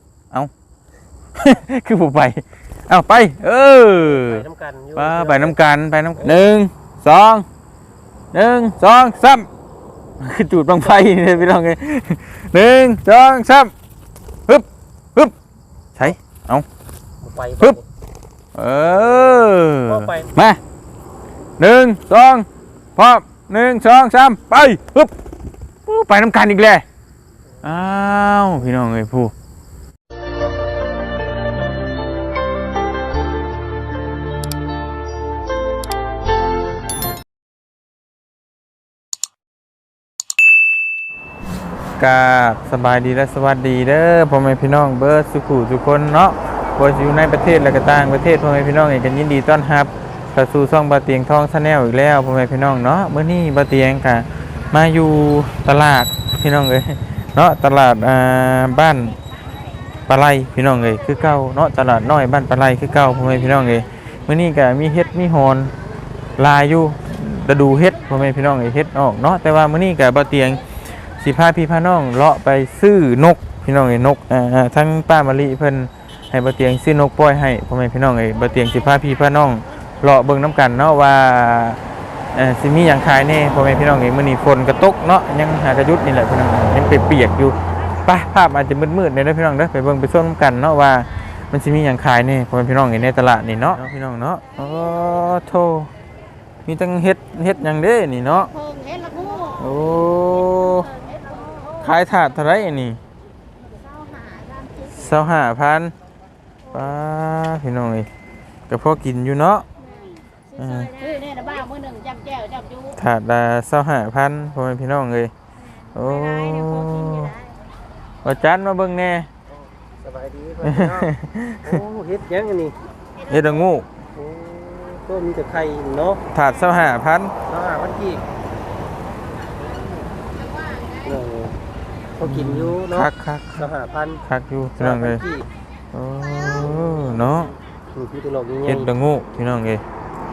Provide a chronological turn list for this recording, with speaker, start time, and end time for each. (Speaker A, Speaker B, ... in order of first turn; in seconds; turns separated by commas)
Speaker A: 1.4-4.4, Speaker B: 4.0-5.6, Speaker A: 5.0-7.4, Speaker B: 6.2-6.5, Speaker A: 8.3-9.5, Speaker A: 10.2-13.7, Speaker B: 11.0-11.3, Speaker A: 14.5-15.3, Speaker A: 15.9-16.6, Speaker B: 17.2-17.8, Speaker A: 18.5-20.6, Speaker B: 18.8-20.3, Speaker A: 21.6-25.1, Speaker A: 25.9-26.8, Speaker A: 27.6-29.3, Speaker A: 42.0-59.2, Speaker A: 60.1-65.7, Speaker A: 66.4-81.8, Speaker A: 82.3-95.9, Speaker A: 96.7-98.5, Speaker C: 98.5-99.8, Speaker A: 99.5-100.9, Speaker C: 100.6-101.9, Speaker A: 101.8-103.0, Speaker C: 103.8-105.0, Speaker A: 104.9-105.9, Speaker A: 106.7-108.1, Speaker A: 108.7-109.6, Speaker C: 109.8-112.9, Speaker A: 110.6-111.0, Speaker A: 112.9-115.3, Speaker A: 115.9-117.5, Speaker C: 115.9-117.2, Speaker A: 118.2-119.3, Speaker B: 120.0-121.1, Speaker A: 120.6-121.8, Speaker B: 121.6-122.8, Speaker A: 123.2-123.9, Speaker B: 124.1-126.2, Speaker A: 126.3-127.3, Speaker B: 127.5-128.2, Speaker B: 129.6-130.1, Speaker C: 130.6-130.9, Speaker B: 131.0-131.6, Speaker B: 132.2-134.2, Speaker A: 132.2-133.7, Speaker A: 134.2-135.2, Speaker B: 134.8-135.5, Speaker A: 135.9-137.5, Speaker B: 136.4-138.9, Speaker A: 138.7-139.8